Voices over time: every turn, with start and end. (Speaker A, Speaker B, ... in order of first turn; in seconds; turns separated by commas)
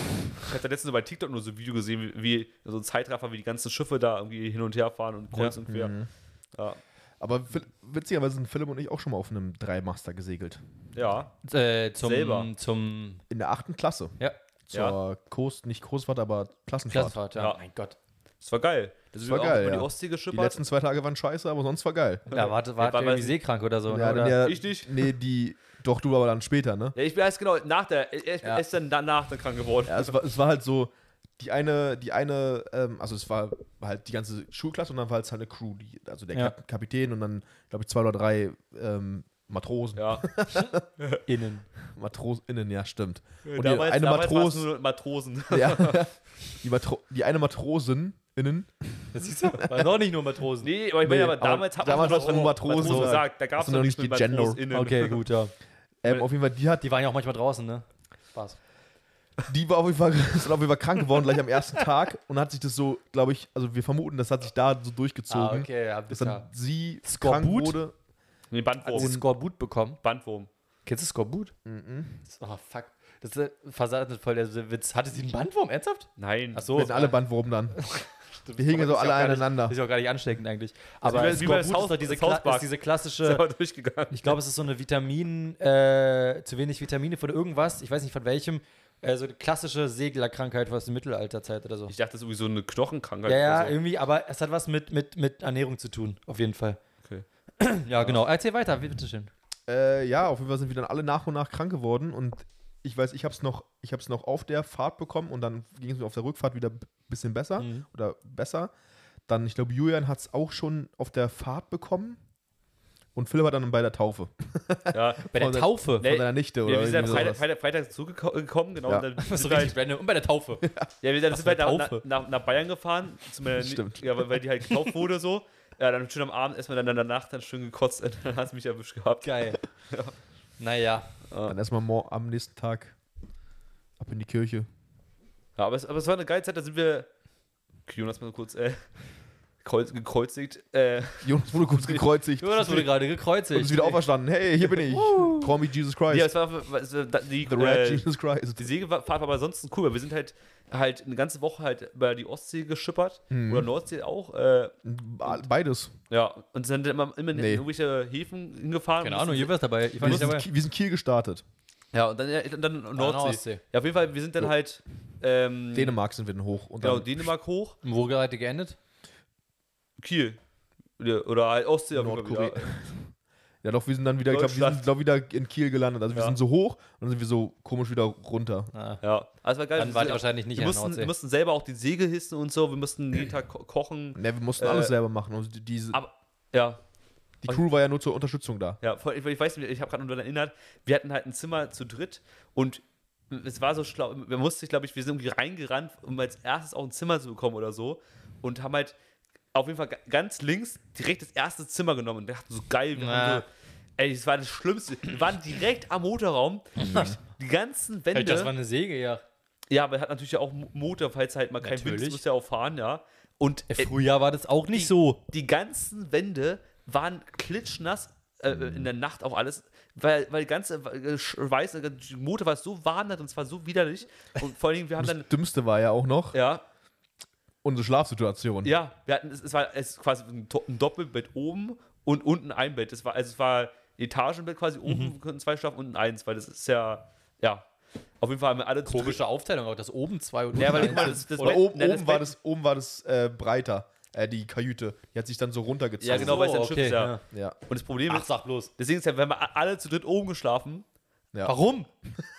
Speaker A: 0.3-5.9, Speaker B: 5.6-6.1, Speaker B: 7.2-10.6, Speaker A: 10.9-11.3, Speaker C: 11.5-13.2, Speaker A: 12.0-12.5, Speaker B: 13.3-17.2, Speaker C: 16.9-17.9, Speaker A: 18.4-20.6, Speaker B: 19.1-22.5, Speaker C: 22.3-24.4, Speaker A: 22.4-23.4, Speaker B: 23.9-26.9, Speaker A: 24.4-24.9, Speaker A: 26.9-30.1, Speaker B: 29.9-40.8, Speaker A: 40.0-40.3, Speaker C: 41.2-41.6, Speaker B: 41.9-44.7, Speaker A: 43.5-46.1, Speaker B: 45.5-49.1, Speaker C: 49.1-50.7, Speaker A: 50.6-55.2, Speaker B: 51.0-54.6, Speaker C: 52.7-53.1, Speaker C: 54.7-55.5, Speaker B: 56.0-56.8, Speaker C: 56.8-58.6, Speaker B: 59.5-67.9, Speaker C: 65.3-66.5, Speaker C: 67.0-67.8, Speaker A: 68.5-69.1, Speaker C: 68.8-70.0, Speaker B: 68.9-69.2, Speaker A: 70.0-70.5, Speaker C: 70.8-71.5, Speaker B: 71.6-72.2, Speaker C: 72.2-77.2, Speaker A: 76.2-76.7, Speaker B: 76.7-77.8, Speaker C: 77.8-83.4, Speaker B: 78.6-79.8, Speaker A: 81.0-84.3, Speaker C: 84.1-91.9, Speaker A: 91.9-93.8, Speaker C: 93.2-96.8, Speaker C: 97.6-99.3, Speaker B: 99.7-108.7, Speaker C: 107.6-107.8, Speaker B: 109.3-112.2, Speaker B: 113.1-117.4, Speaker A: 114.9-115.3, Speaker C: 115.3-116.1, Speaker A: 116.0-119.8, Speaker C: 119.2-120.7, Speaker B: 120.6-120.9, Speaker A: 121.0-130.1, Speaker C: 121.3-122.0, Speaker B: 123.6-124.3, Speaker C: 129.2-129.6, Speaker C: 130.6-131.1, Speaker A: 131.3-131.5, Speaker B: 131.4-132.9, Speaker B: 134.0-134.7, Speaker A: 135.6-137.1, Speaker A: 137.9-138.8, Speaker A: 139.6-142.1, Speaker B: 141.2-146.3, Speaker C: 142.4-144.0, Speaker C: 144.9-145.5, Speaker A: 146.1-154.7, Speaker B: 147.4-148.7, Speaker B: 153.3-153.7, Speaker B: 154.8-155.9, Speaker A: 156.1-160.2, Speaker B: 157.3-157.6, Speaker C: 159.0-160.4, Speaker B: 160.0-161.4, Speaker A: 161.9-166.0, Speaker C: 162.9-163.6, Speaker B: 165.7-167.3, Speaker A: 166.8-167.8, Speaker C: 167.8-168.8, Speaker A: 170.0-170.4, Speaker A: 171.0-172.7, Speaker B: 171.9-173.1, Speaker B: 173.6-178.7, Speaker A: 174.3-174.9, Speaker C: 178.7-179.0, Speaker A: 179.0-184.9, Speaker C: 179.8-181.1, Speaker B: 184.2-186.0, Speaker A: 185.9-186.8, Speaker B: 187.4-188.8, Speaker A: 188.8-198.9, Speaker A: 199.5-203.5, Speaker C: 202.9-203.4, Speaker A: 204.0-208.5, Speaker B: 206.8-207.2, Speaker C: 206.8-207.1, Speaker C: 208.1-209.2, Speaker A: 209.7-213.9, Speaker C: 211.6-212.2, Speaker C: 213.7-215.2, Speaker A: 214.7-225.3, Speaker B: 225.0-226.4, Speaker A: 226.3-226.6, Speaker B: 227.6-228.7, Speaker A: 228.6-237.6, Speaker C: 234.8-235.1, Speaker A: 238.2-239.2, Speaker C: 238.8-241.6, Speaker A: 240.6-242.3, Speaker B: 240.7-246.4, Speaker A: 246.0-250.8, Speaker C: 246.1-247.2, Speaker B: 247.3-247.6, Speaker C: 248.1-248.7, Speaker C: 251.4-251.9